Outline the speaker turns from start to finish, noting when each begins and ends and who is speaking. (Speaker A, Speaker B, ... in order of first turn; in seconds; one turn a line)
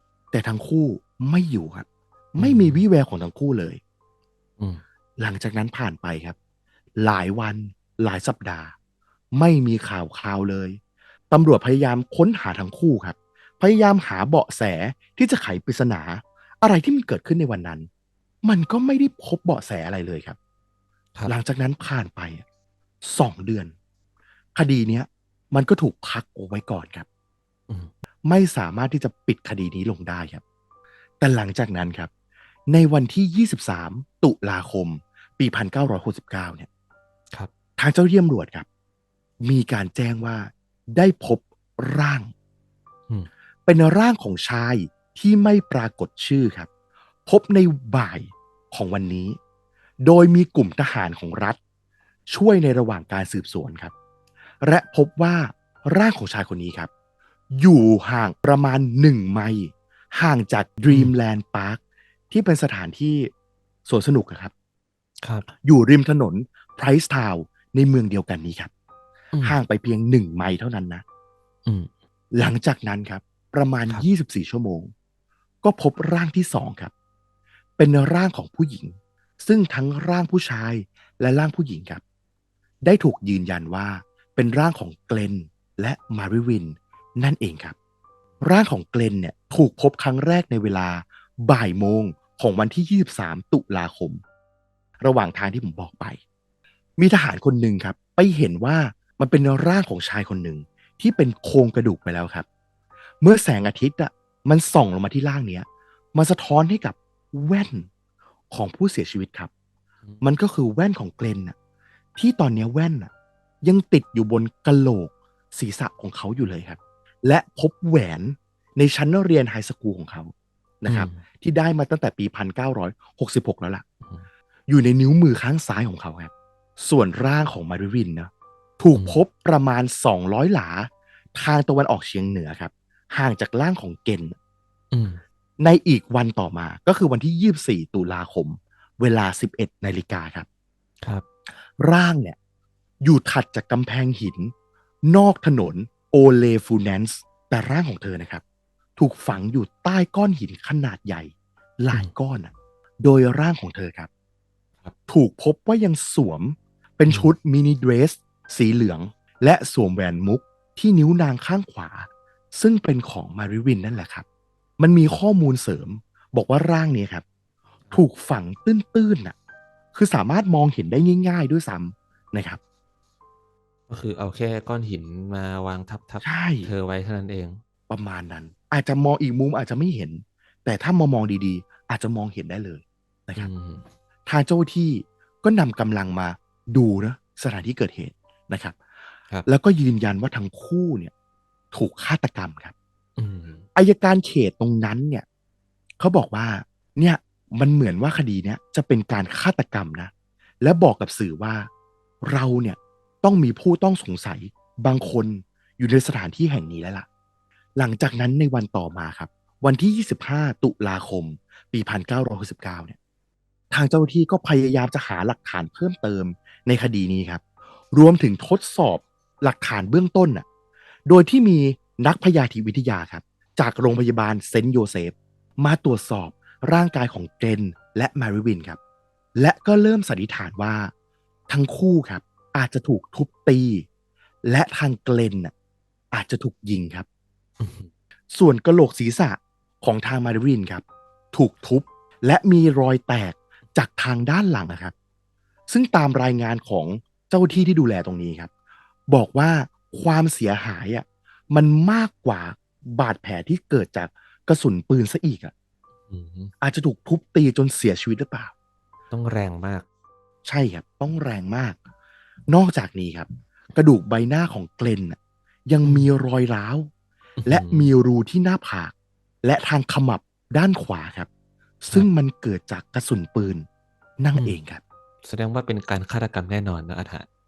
Speaker A: 0.3-3.8
Speaker B: 2.4-2.8
Speaker A: 5.2-6.4
Speaker A: 7.0-8.7
Speaker A: 9.3-10.8
Speaker A: 11.3-17.9
Speaker A: 18.5-20.4
Speaker A: 21.3-22.4
Speaker A: 23.1-23.7
Speaker A: 24.6-27.1
Speaker A: 28.3-30.4
Speaker A: 31.2-32.1
Speaker A: 32.7-36.7
Speaker A: 37.8-38.7
Speaker A: 39.4-42.3
Speaker A: 43.7-46.7
Speaker A: 47.3-49.4
Speaker A: 50.0-51.6
Speaker A: 52.3-53.9
Speaker A: 54.6-56.9
Speaker A: 57.5-63.3
Speaker A: 63.9-64.5
Speaker A: 65.6-68.7
Speaker A: 69.4-71.0
Speaker A: 72.3-74.9
Speaker A: 75.6-76.9
Speaker A: 77.8-82.0
Speaker A: 82.8-87.8
Speaker A: 88.4-94.2
Speaker A: 95.0-96.2
Speaker A: 97.0-102.5
Speaker A: 103.2-107.9
Speaker A: 108.5-109.5
Speaker A: 110.2-111.5
Speaker A: 112.2-113.1
Speaker A: 113.6-123.8
Speaker B: 120.9-121.2
Speaker A: 124.7-134.4
Speaker B: 134.9-135.2
Speaker A: 135.6-140.5
Speaker A: 141.8-142.4
Speaker A: 143.0-144.5
Speaker A: 145.1-148.4
Speaker A: 149.0-154.1
Speaker A: 155.1-164.2
Speaker A: 164.8-167.2
Speaker A: 167.9-169.3
Speaker A: 169.9-172.6
Speaker B: 173.9-177.6
Speaker A: 176.2-176.7
Speaker A: 177.9-183.5
Speaker B: 183.4-183.8
Speaker A: 184.3-188.8
Speaker A: 189.5-191.1
Speaker A: 191.7-192.8
Speaker B: 193.2-193.7
Speaker A: 193.8-195.2
Speaker A: 196.0-200.1
Speaker A: 200.6-201.7
Speaker A: 202.2-207.1
Speaker A: 207.8-213.0
Speaker A: 213.7-220.4
Speaker A: 221.1-228.8
Speaker A: 229.4-230.9
Speaker A: 231.5-233.8
Speaker A: 234.4-235.5
Speaker A: 236.1-237.1
Speaker B: 237.6-237.9
Speaker A: 238.3-244.9
Speaker A: 245.7-248.5
Speaker A: 249.1-255.5
Speaker B: 256.1-256.5
Speaker A: 256.6-258.5
Speaker B: 259.1-259.9
Speaker A: 260.4-261.8
Speaker A: 262.5-266.9
Speaker B: 267.4-267.9
Speaker A: 267.4-271.3
Speaker A: 271.8-273.7
Speaker A: 274.2-274.8
Speaker B: 275.2-277.3